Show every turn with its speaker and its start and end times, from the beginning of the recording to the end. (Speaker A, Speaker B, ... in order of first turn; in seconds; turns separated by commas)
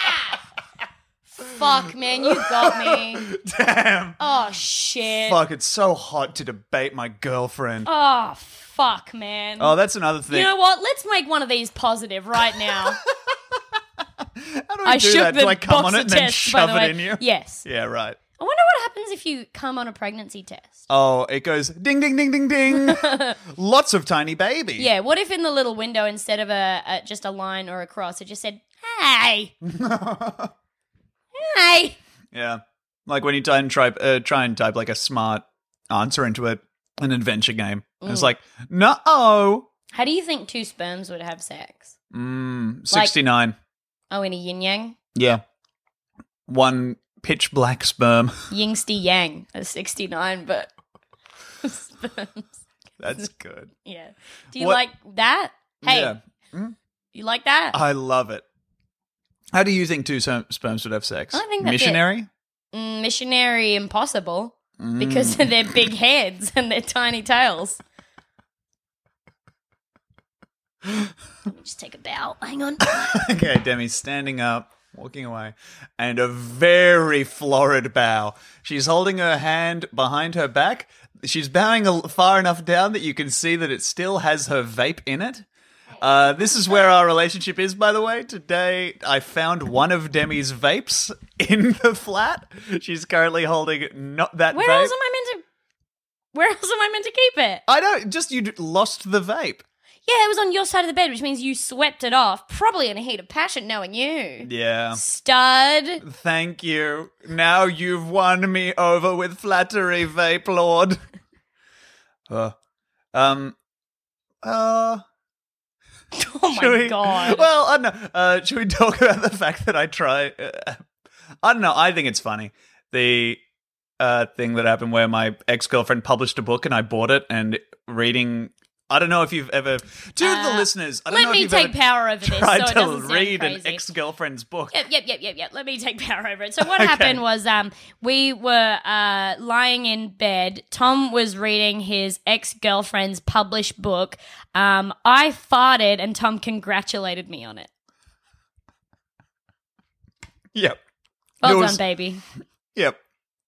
Speaker A: 1.4-3.3, Speaker B: 1.8-4.2, Speaker A: 4.2-5.4, Speaker B: 5.1-7.9, Speaker A: 7.8-9.8, Speaker B: 9.6-10.5, Speaker A: 10.3-13.0, Speaker B: 12.6-13.0, Speaker B: 14.4-18.2, Speaker A: 14.8-17.6, Speaker A: 18.4-20.9, Speaker B: 20.9-24.9, Speaker A: 22.7-23.4, Speaker A: 24.8-29.5, Speaker B: 29.6-30.5, Speaker A: 31.4-32.0, Speaker B: 32.3-39.7, Speaker A: 38.0-38.3, Speaker A: 39.9-41.9, Speaker B: 42.1-43.5, Speaker A: 44.1-45.0, Speaker B: 45.1-45.4, Speaker B: 46.5-48.4, Speaker A: 48.5-50.7, Speaker A: 51.6-52.5, Speaker B: 53.0-53.7, Speaker A: 53.8-56.2, Speaker B: 55.8-56.8, Speaker A: 57.1-57.8, Speaker B: 57.7-58.4, Speaker B: 59.5-62.3, Speaker A: 61.3-62.0, Speaker A: 62.7-67.8, Speaker B: 64.8-65.8, Speaker A: 71.5-73.2, Speaker B: 72.9-85.5, Speaker B: 86.0-94.9, Speaker A: 94.5-95.4, Speaker A: 96.3-97.6, Speaker B: 97.7-99.6, Speaker A: 100.1-106.0, Speaker B: 104.4-105.0, Speaker B: 106.0-111.0, Speaker B: 112.3-112.5, Speaker B: 113.1-113.5, Speaker B: 114.4-115.0, Speaker A: 116.2-117.5, Speaker B: 116.5-120.8, Speaker B: 121.4-123.4, Speaker B: 124.0-134.8, Speaker A: 130.2-133.8, Speaker A: 134.7-147.7, Speaker B: 136.6-137.2, Speaker A: 151.4-152.2, Speaker B: 151.4-151.8